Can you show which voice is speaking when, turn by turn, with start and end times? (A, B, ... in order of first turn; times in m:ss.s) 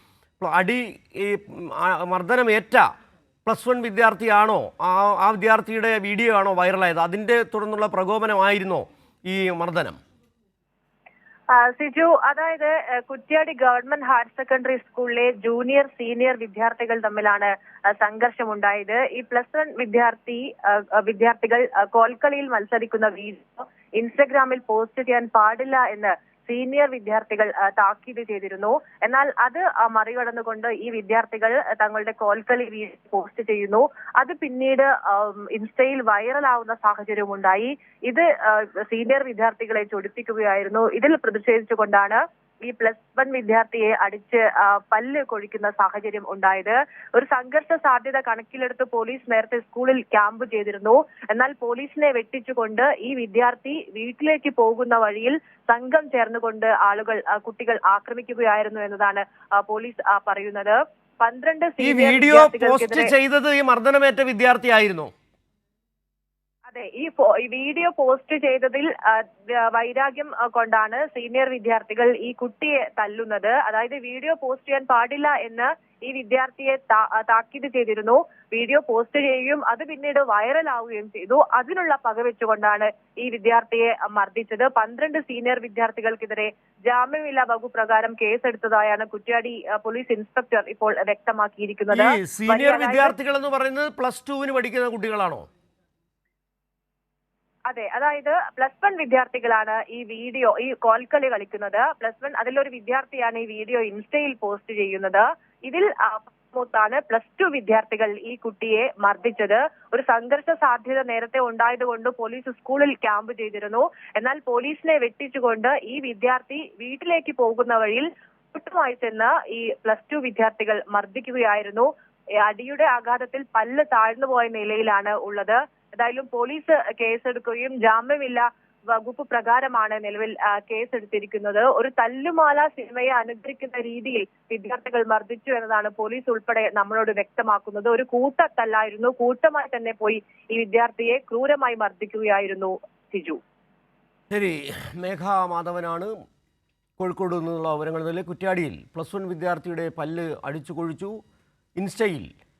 0:00.4-0:02.9 A
0:03.4-0:10.0 A
0:11.5-1:03.1 B
1:01.8-1:05.1 A
1:06.7-1:33.2 B
1:31.9-1:35.4 A
1:37.7-2:01.9 B
2:02.4-2:23.4 B
2:24.3-2:26.1 A
2:27.0-2:31.2 A
2:31.8-2:32.3 A